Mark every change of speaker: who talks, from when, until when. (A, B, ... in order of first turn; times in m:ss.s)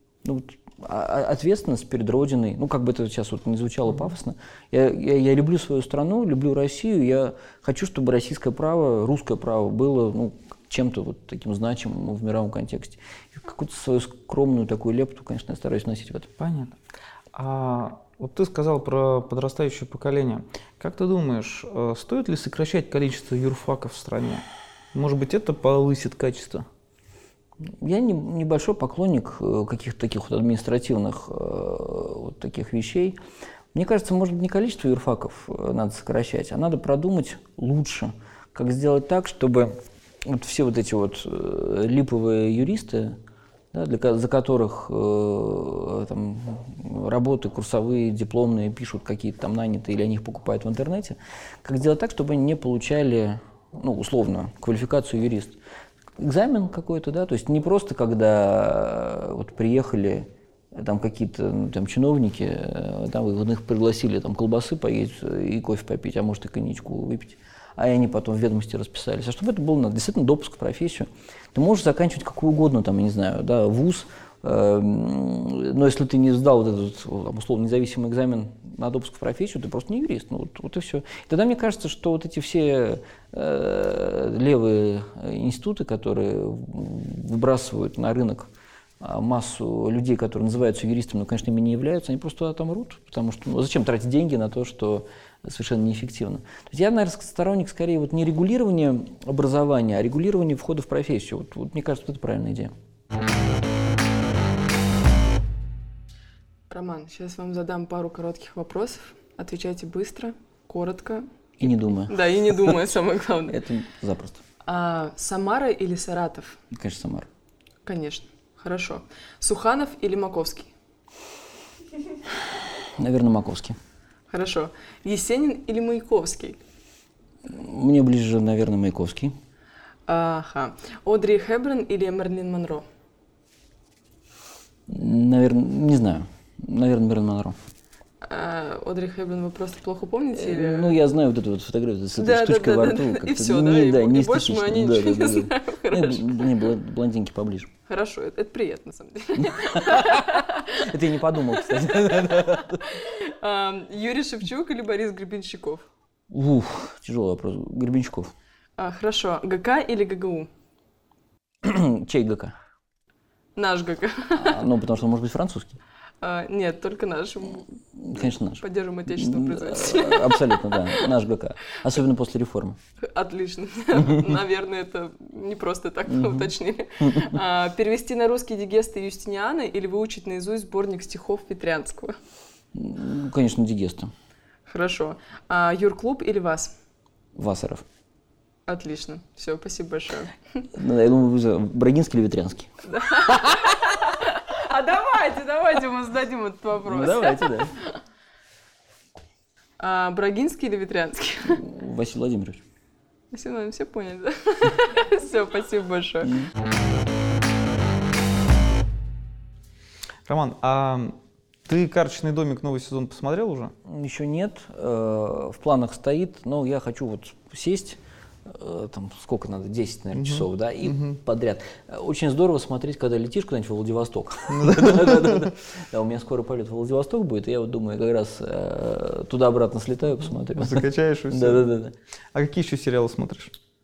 0:00.2-0:16.3 A
0:16.4-0:16.8 B
0:17.3-0:26.7 B
0:27.7-0:33.2 A
0:33.7-0:43.2 A
0:43.7-0:55.6 A
0:56.2-1:28.5 A
1:29.0-1:42.7 A
1:46.7-1:51.3 C
1:51.6-1:52.8 A
1:52.1-1:53.6 C
1:53.5-1:54.4 A
1:54.6-1:56.6 C
1:56.7-1:57.3 A
1:57.8-2:00.7 C
2:03.0-2:03.8 A
2:04.3-2:06.6 C
2:07.5-2:09.3 A
2:10.1-2:12.8 C
2:14.9-2:17.6 A
2:18.2-2:21.0 C
2:20.3-2:27.7 A
2:22.2-2:26.5 C
2:27.9-2:30.8 C
2:29.4-2:33.0 A
2:31.4-2:35.8 C
2:36.3-2:38.3 A
2:38.8-2:40.5 C
2:41.6-2:42.5 A
2:43.6-2:44.6 C
2:44.3-2:45.8 A
2:46.2-2:47.6 C
2:48.0-2:52.8 A
2:48.6-2:51.1 C
2:53.0-3:02.2 C
2:56.1-2:57.4 A
3:02.7-3:04.1 A
3:04.7-3:06.8 C
3:07.4-3:07.8 A
3:08.7-3:10.6 C
3:10.7-3:13.6 A
3:12.9-3:17.7 C
3:16.8-3:17.7 A
3:19.8-3:21.6 C
3:21.6-3:22.6 A
3:23.3-3:26.4 C
3:30.3-3:33.7 B
3:33.8-3:51.9 A
3:40.1-3:41.1 B
3:44.5-3:45.5 B
3:50.6-3:51.7 B
3:52.3-3:53.5 B